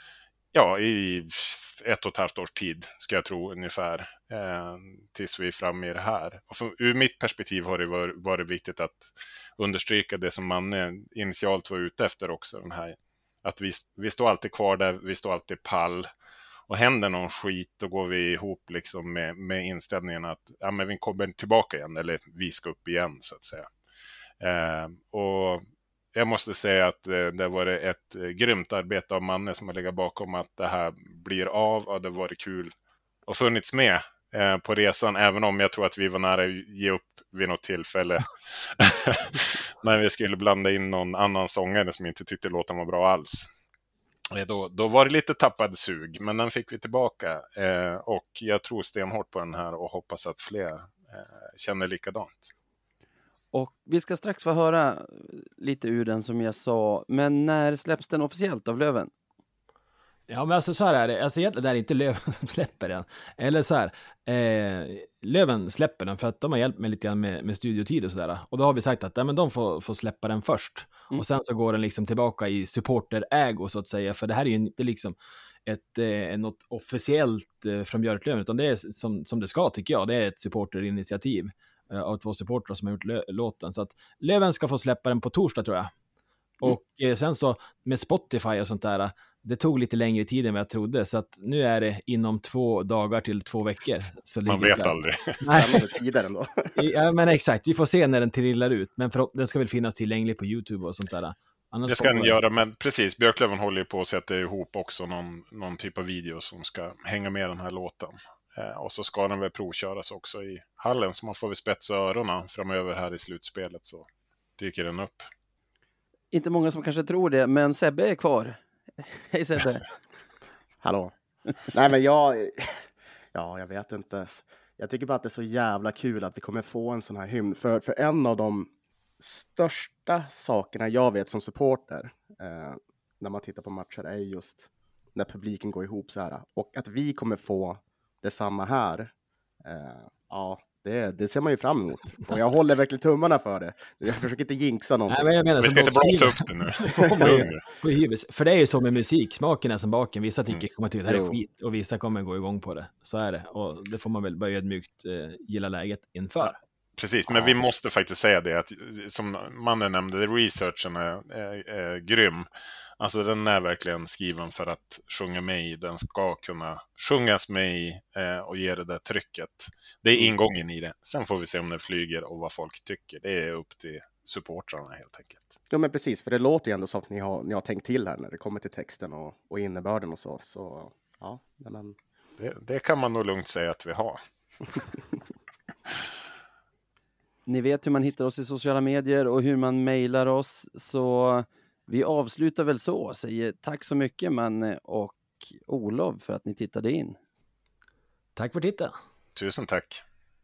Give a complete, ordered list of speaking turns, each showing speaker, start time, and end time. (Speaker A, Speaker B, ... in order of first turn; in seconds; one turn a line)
Speaker A: 0.5-16.1
Speaker A: 16.7-23.7
Speaker A: 24.4-25.6
Speaker A: 26.1-32.7
Speaker A: 33.3-43.5
Speaker A: 44.3-52.5
Speaker B: 53.5-59.1
Speaker C: 60.3-85.9
Speaker C: 86.6-95.8
Speaker A: 94.5-95.4
Speaker D: 95.5-96.7
Speaker C: 96.8-102.4
Speaker A: 101.9-114.1
Speaker A: 114.6-115.3
Speaker B: 116.3-119.8
Speaker D: 120.8-128.7
Speaker D: 129.2-139.1
Speaker D: 139.6-145.3
Speaker C: 145.1-156.6
Speaker A: 145.6-147.7
Speaker D: 151.1-151.4
Speaker A: 156.5-162.5
Speaker A: 163.0-175.5
Speaker D: 175.7-182.0
Speaker A: 182.4-184.2
Speaker B: 187.4-197.2
Speaker C: 198.3-198.9
Speaker A: 199.3-200.0